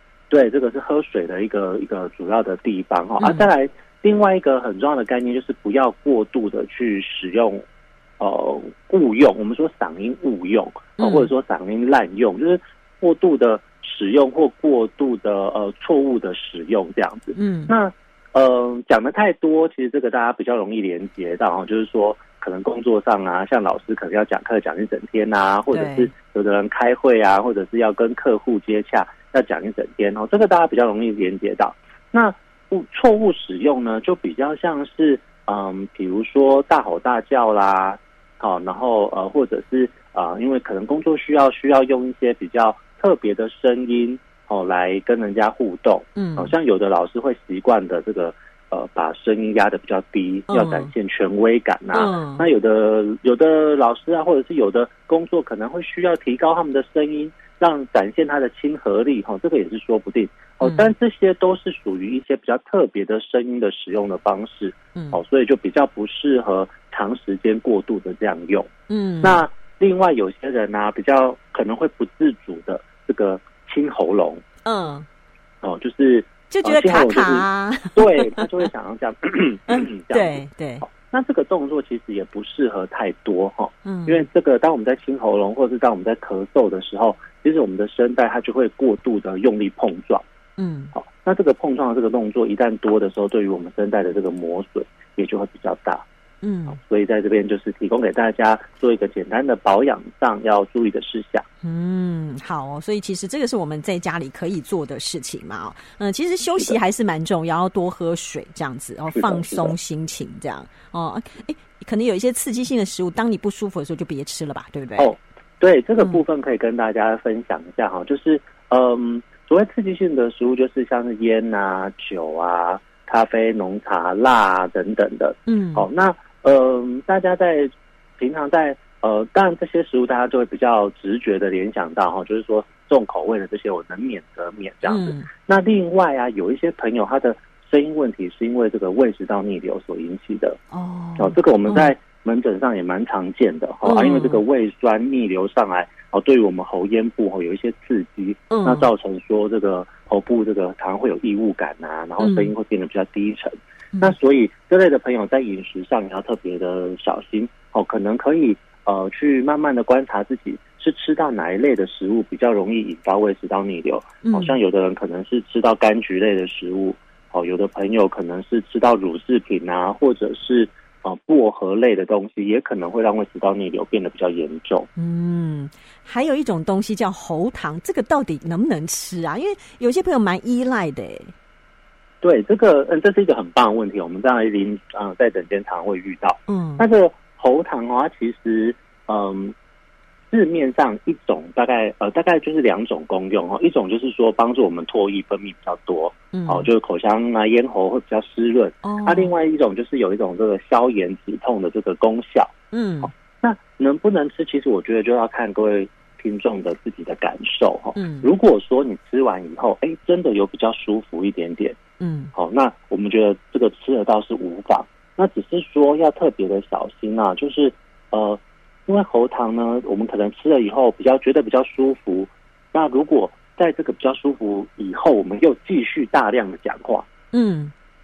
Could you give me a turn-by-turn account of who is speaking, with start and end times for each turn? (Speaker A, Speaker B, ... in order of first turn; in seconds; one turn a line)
Speaker A: 0.3-7.6
Speaker B: 3.2-3.5
Speaker A: 8.2-68.7
Speaker B: 11.0-11.3
Speaker B: 17.3-17.7
Speaker B: 25.7-26.1
Speaker B: 46.1-46.5
Speaker B: 50.5-50.9
Speaker B: 51.9-52.4
Speaker B: 60.6-60.9
Speaker B: 64.9-65.2
Speaker B: 68.9-69.4
Speaker A: 69.2-74.4
Speaker B: 74.6-75.1
Speaker A: 75.6-90.2
Speaker B: 76.5-78.4
Speaker B: 79.7-80.8
Speaker B: 83.8-84.2
Speaker B: 90.6-90.9
Speaker A: 90.9-96.0
Speaker B: 96.4-96.8
Speaker A: 96.7-101.4
Speaker B: 101.6-115.1
Speaker A: 109.1-109.7
Speaker A: 115.0-140.6
Speaker B: 125.5-125.9
Speaker B: 134.8-135.3
Speaker B: 140.7-141.9
Speaker A: 141.2-174.9
Speaker B: 143.8-144.4
Speaker B: 148.5-148.9
Speaker B: 152.2-152.5
Speaker B: 164.2-164.6
Speaker B: 175.0-181.3
Speaker A: 182.2-189.5
Speaker B: 186.5-186.8
Speaker A: 190.3-211.8
Speaker B: 196.3-196.7
Speaker B: 198.8-199.3
Speaker B: 202.7-203.1
Speaker B: 207.9-208.3
Speaker B: 212.0-212.3
Speaker A: 212.3-227.1
Speaker B: 227.3-227.7